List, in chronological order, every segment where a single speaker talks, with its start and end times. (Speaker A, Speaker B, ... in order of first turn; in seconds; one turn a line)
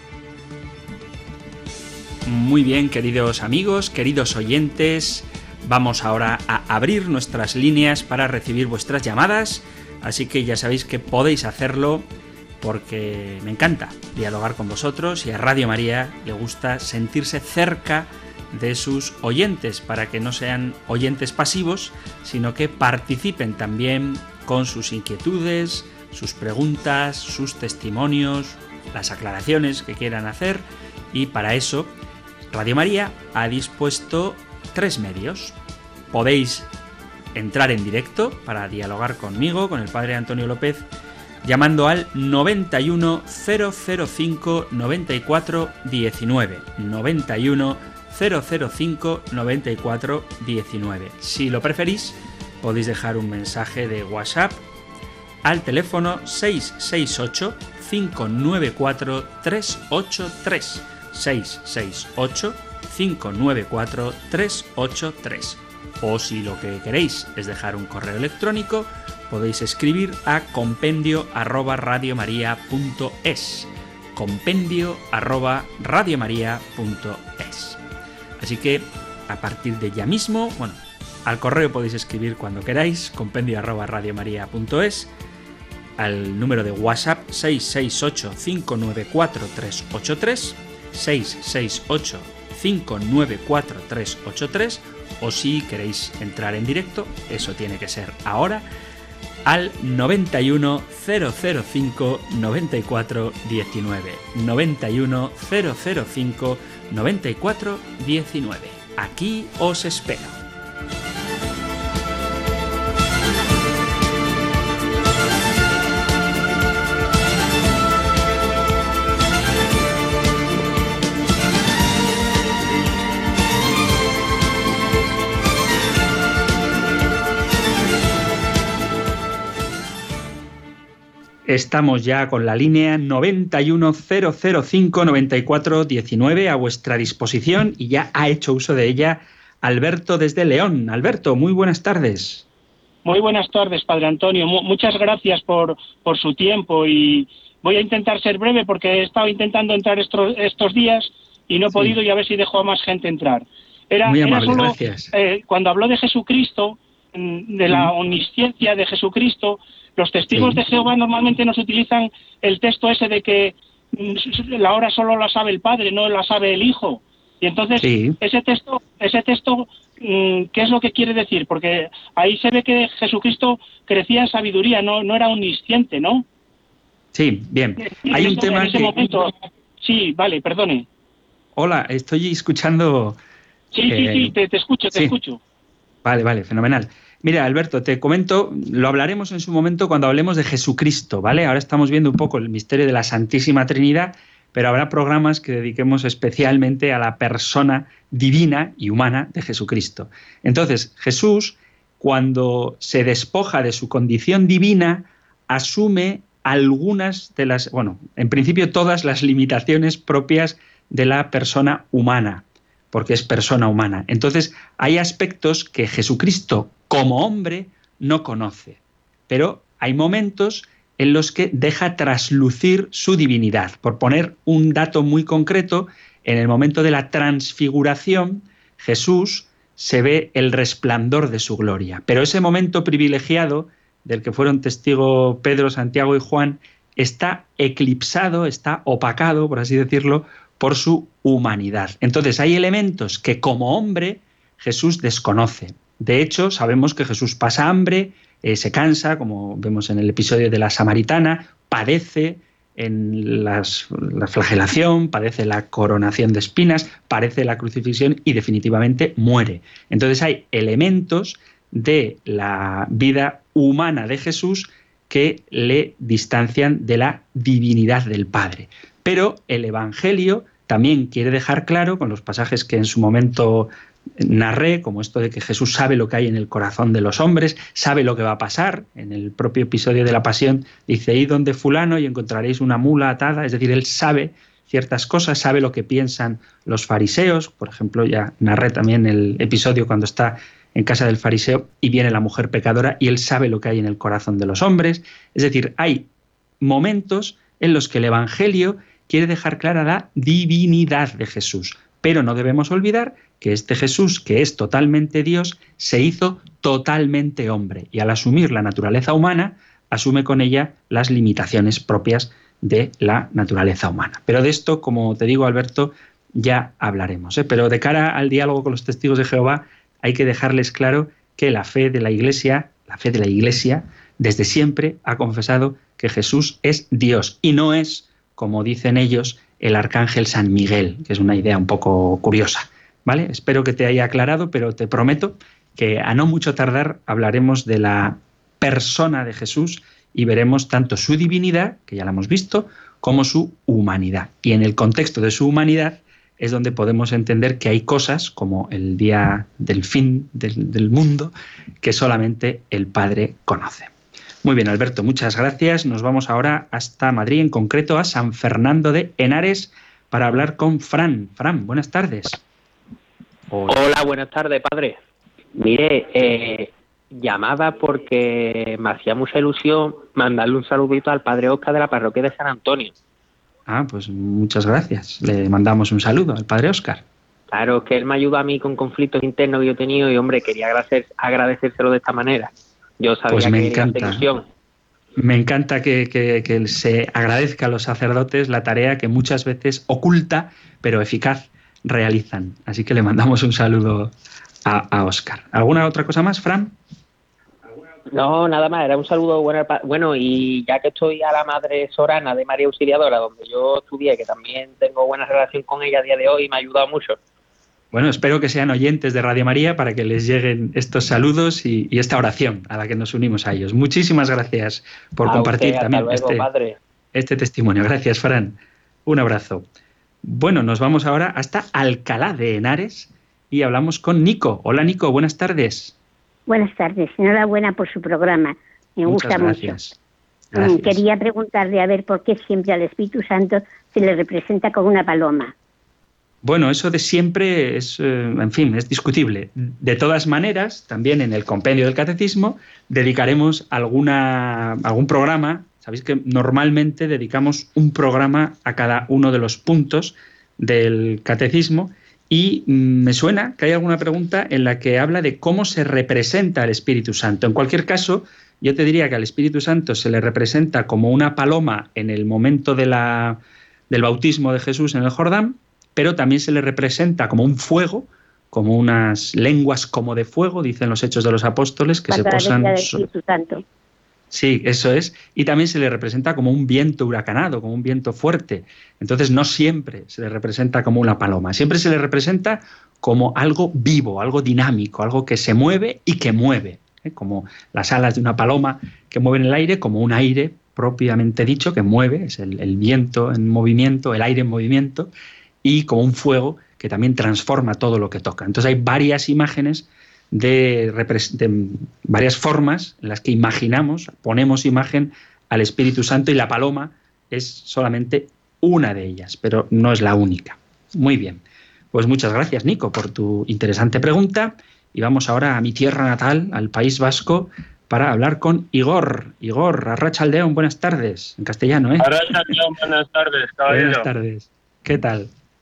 Speaker A: 2.2-12.1
Speaker A: 12.6-31.9
Speaker A: 32.5-35.5
Speaker A: 36.1-36.7
Speaker A: 37.3-40.9
Speaker A: 41.4-54.6
Speaker A: 55.4-77.8
Speaker A: 78.4-85.1
Speaker A: 86.0-98.7
Speaker A: 99.5-110.4
Speaker A: 131.4-142.4
Speaker B: 143.0-176.2
Speaker A: 154.0-155.1
Speaker A: 160.3-160.6
Speaker A: 167.8-168.2
Speaker A: 177.1-178.9
Speaker B: 177.8-180.8
Speaker A: 181.6-183.2
Speaker B: 183.7-185.4
Speaker A: 183.9-184.3
Speaker A: 186.0-296.1
Speaker A: 296.6-353.9
Speaker A: 354.4-362.4
Speaker A: 363.5-363.8
Speaker C: 363.7-365.0
Speaker C: 365.6-372.9
Speaker A: 373.7-377.0
Speaker C: 377.5-384.4
Speaker A: 383.3-384.2
Speaker A: 385.2-394.1
Speaker A: 394.6-396.7
Speaker C: 398.1-407.2
Speaker A: 407.9-416.5
Speaker C: 415.2-416.8
Speaker A: 417.1-419.6
Speaker A: 420.2-425.9
Speaker D: 426.5-429.9
Speaker A: 429.1-429.9
Speaker A: 430.5-431.0
Speaker D: 430.5-435.5
Speaker A: 436.4-473.0
Speaker D: 472.1-473.6
Speaker A: 474.3-495.1
Speaker A: 495.6-511.4
Speaker A: 511.9-522.5
Speaker E: 522.0-524.1
Speaker A: 523.7-525.3